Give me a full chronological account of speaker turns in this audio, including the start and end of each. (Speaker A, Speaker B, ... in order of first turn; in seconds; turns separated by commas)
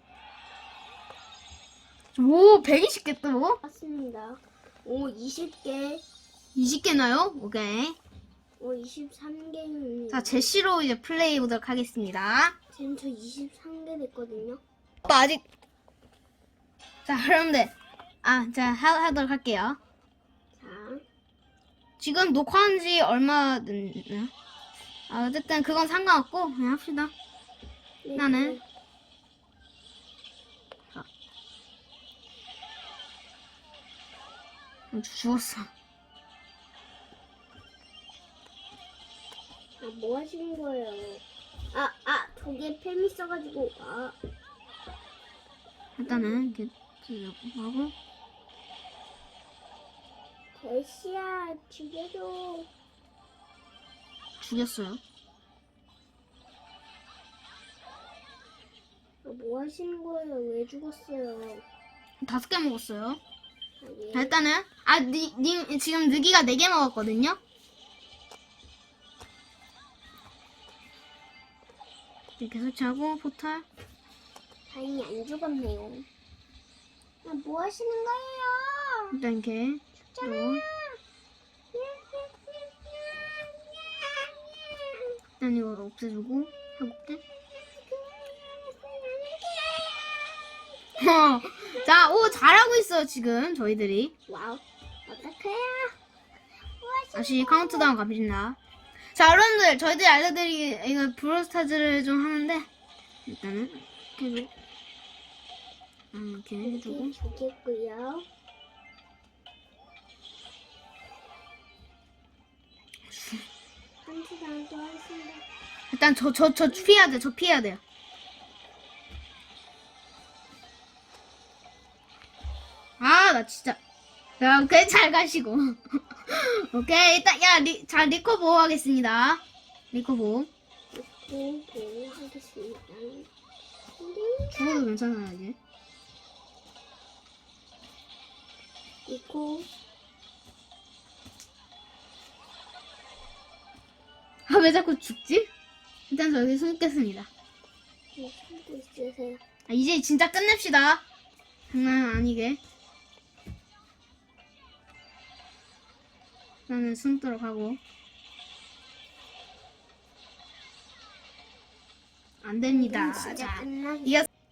Speaker A: 2.1-3.6, Speaker B: 3.6-6.0, Speaker A: 6.5-8.0, Speaker B: 8.6-10.5, Speaker A: 10.1-12.6, Speaker B: 12.7-14.6, Speaker A: 15.1-15.4, Speaker A: 17.1-17.7, Speaker A: 18.2-19.8, Speaker B: 20.6-21.0, Speaker A: 22.0-24.3, Speaker A: 25.1-27.1, Speaker B: 28.0-28.6, Speaker A: 28.1-28.6, Speaker A: 34.9-35.7, Speaker B: 39.8-44.2, Speaker A: 46.0-48.0, Speaker B: 46.1-46.4, Speaker B: 50.6-52.7, Speaker A: 54.4-55.0, Speaker B: 59.2-61.6, Speaker A: 62.2-63.2, Speaker B: 63.8-64.3, Speaker A: 64.1-67.4, Speaker A: 72.4-73.7, Speaker B: 74.7-76.1, Speaker B: 77.2-79.2, Speaker A: 79.1-80.6, Speaker B: 80.1-81.0, Speaker B: 81.7-85.1, Speaker A: 85.4-87.2, Speaker B: 87.6-90.5, Speaker A: 91.0-94.1, Speaker B: 91.5-92.6, Speaker B: 94.3-96.0, Speaker B: 96.8-97.9, Speaker A: 97.2-98.6, Speaker A: 99.2-102.7, Speaker A: 103.3-104.5, Speaker A: 106.1-107.1, Speaker B: 106.6-108.3, Speaker A: 113.1-113.4, Speaker B: 114.0-115.4, Speaker A: 115.9-117.8, Speaker B: 116.7-117.2, Speaker A: 123.0-123.8, Speaker A: 124.4-130.5, Speaker B: 130.9-133.3, Speaker B: 134.0-134.8, Speaker A: 134.5-135.6, Speaker B: 139.1-139.7, Speaker A: 144.5-145.5, Speaker A: 146.1-147.3, Speaker B: 148.2-149.4, Speaker A: 149.7-151.0, Speaker A: 151.7-152.6, Speaker A: 156.7-157.8, Speaker A: 162.4-164.3, Speaker B: 162.7-164.3